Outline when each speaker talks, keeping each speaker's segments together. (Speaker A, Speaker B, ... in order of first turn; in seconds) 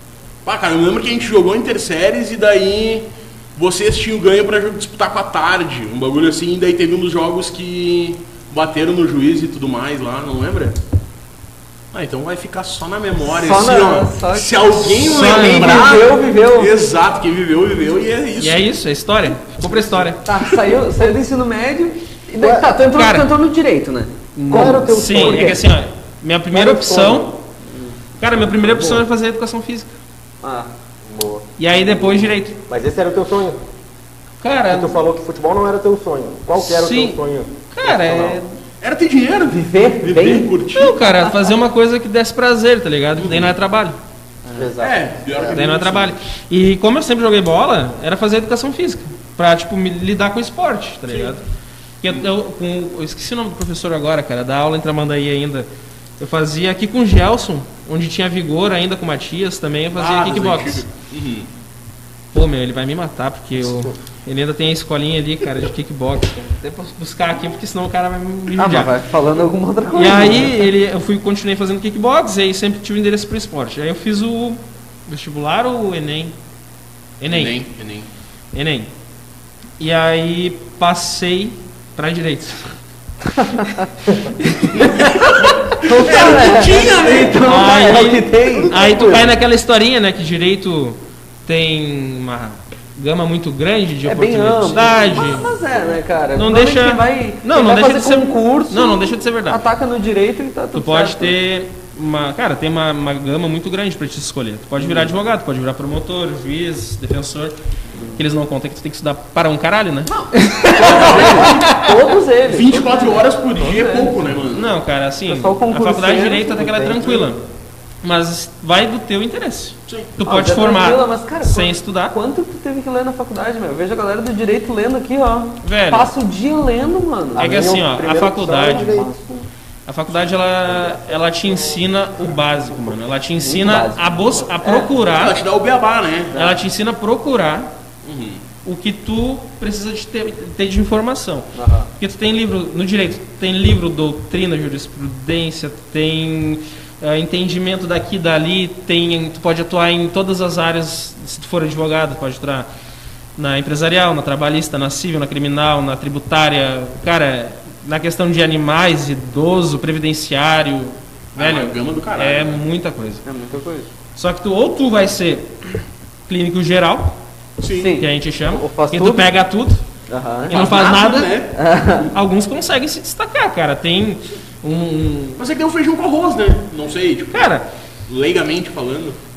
Speaker A: 0.4-10.8, 11.9-18.6, 38.8-41.0, 43.2-43.5, 44.8-46.1, 60.0-61.5, 77.3-78.1, 84.8-87.5, 110.8-111.7, 112.4-114.7, 119.9-120.1, 135.1-136.5, 138.0-138.4, 161.4-162.6, 167.6-168.0, 170.5-171.5, 175.4-177.5, 178.1-179.2
Speaker B: 13.3-16.7, 20.2-25.6, 27.6-28.0, 30.4-30.7, 39.5-40.5, 44.4-44.7, 68.5-70.7, 85.8-89.2, 94.0-101.3, 104.8-105.1, 107.9-108.2, 110.1-114.2, 115.3-116.7, 120.2-127.7, 128.6-129.5, 133.4-134.9, 141.5-141.9, 163.2-163.9, 167.8-169.3, 170.1-170.6, 171.5-172.1
Speaker C: 15.0-15.9, 18.4-20.2, 22.9-23.3, 24.4-27.4, 28.2-29.9, 31.6-32.6, 34.4-35.0, 36.6-38.6, 40.7-44.0, 45.5-51.4, 52.0-55.7, 56.2-60.9, 62.3-68.9, 69.9-76.4, 77.2-77.6, 78.5-78.9, 79.8-82.7, 84.4-85.0, 87.4-95.5, 96.3-99.6, 100.7-107.5, 108.2-110.1, 110.7-112.0, 114.5-117.4, 118.0-122.1, 125.6-126.1, 127.4-129.0, 129.9-135.4, 136.3-137.7, 138.6-152.7, 153.4-163.2, 164.2-167.1, 168.0-169.8, 170.5-171.4, 172.1-175.4, 177.3-177.7
Speaker D: 22.4-22.7, 24.5-25.6, 26.5-27.3, 28.6-29.0, 31.0-33.6, 34.7-38.4, 44.5-45.6, 88.4-89.3, 116.5-117.3, 127.4-129.1